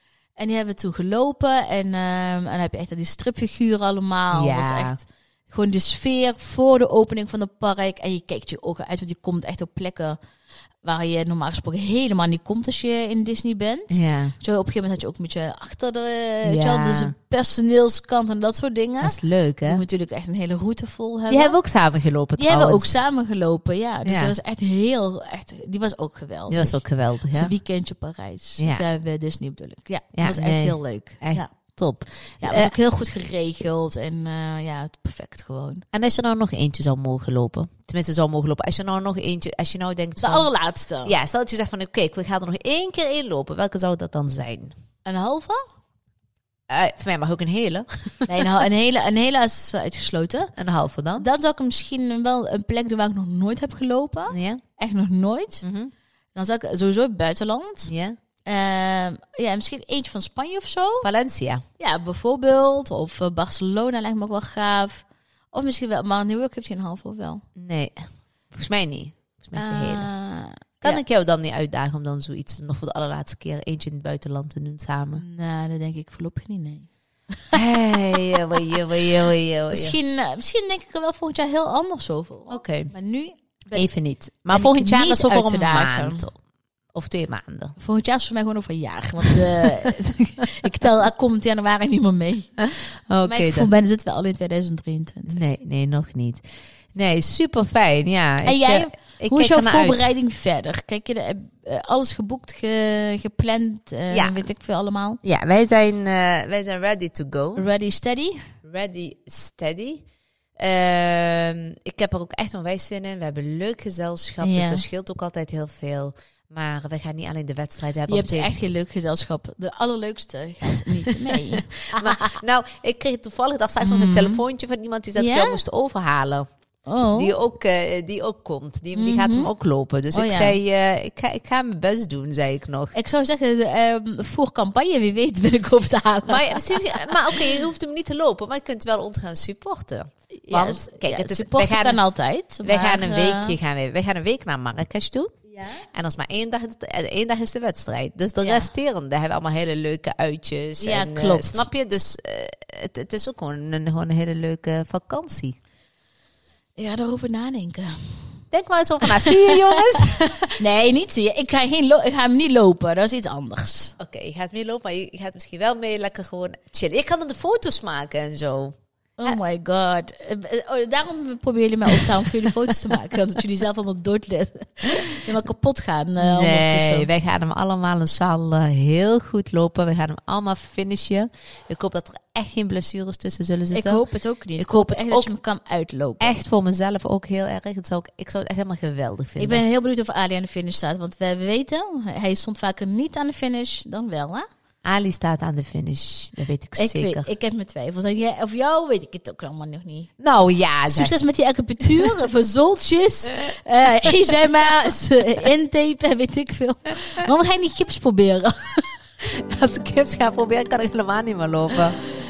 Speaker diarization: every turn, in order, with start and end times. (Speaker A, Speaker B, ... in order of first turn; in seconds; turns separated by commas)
Speaker A: 0.4-10.2, Speaker B: 4.3-5.0, Speaker A: 10.8-21.6, Speaker B: 13.9-14.4, Speaker B: 16.4-17.1, Speaker B: 19.0-19.8, Speaker B: 21.3-23.0, Speaker A: 22.4-26.8, Speaker B: 24.0-24.3, Speaker B: 26.5-27.5, Speaker A: 27.3-31.5, Speaker B: 30.1-32.7, Speaker A: 32.4-35.9, Speaker B: 35.9-40.5, Speaker A: 40.2-41.1, Speaker B: 41.0-44.7, Speaker A: 45.0-45.6, Speaker B: 46.7-48.5, Speaker A: 48.3-50.5, Speaker B: 50.5-51.2, Speaker A: 51.1-55.6, Speaker B: 54.3-54.6, Speaker B: 55.6-55.9, Speaker A: 56.4-57.9, Speaker B: 57.9-58.1, Speaker A: 58.5-61.1, Speaker B: 61.0-61.6, Speaker A: 61.8-67.4, Speaker B: 67.5-70.1, Speaker A: 69.5-71.0, Speaker B: 70.8-75.2, Speaker A: 75.2-79.0, Speaker B: 77.5-80.0, Speaker A: 79.7-83.9, Speaker B: 82.5-82.9, Speaker B: 83.7-86.4, Speaker A: 84.5-86.2, Speaker B: 86.9-87.7, Speaker A: 87.8-92.7, Speaker B: 89.3-89.6, Speaker B: 92.6-93.7, Speaker A: 93.2-95.4, Speaker B: 95.3-96.4, Speaker B: 96.9-100.0, Speaker A: 98.4-105.2, Speaker B: 104.1-104.5, Speaker B: 105.2-107.6, Speaker A: 107.5-108.5, Speaker B: 108.6-110.0, Speaker B: 110.6-118.5, Speaker A: 114.4-114.8, Speaker A: 118.1-122.4, Speaker B: 120.9-126.5, Speaker A: 123.8-124.4, Speaker A: 125.2-125.6, Speaker A: 126.9-127.3, Speaker B: 127.1-132.9, Speaker A: 128.9-129.5, Speaker A: 130.1-130.6, Speaker A: 132.9-137.6, Speaker B: 136.3-142.0, Speaker A: 140.3-143.6, Speaker B: 142.6-145.3, Speaker A: 145.5-145.8, Speaker B: 145.9-155.6, Speaker A: 148.4-148.7, Speaker A: 150.8-151.7, Speaker A: 156.8-158.2, Speaker B: 158.5-160.6, Speaker A: 159.0-160.0, Speaker A: 160.6-163.9, Speaker B: 164.0-168.8, Speaker A: 169.2-177.1, Speaker B: 176.2-184.0, Speaker A: 183.7-186.4, Speaker B: 184.6-185.3, Speaker B: 186.2-189.6, Speaker A: 189.4-194.4, Speaker B: 194.8-197.3, Speaker A: 196.8-200.1, Speaker B: 200.2-201.1, Speaker A: 200.9-209.0, Speaker B: 209.2-212.0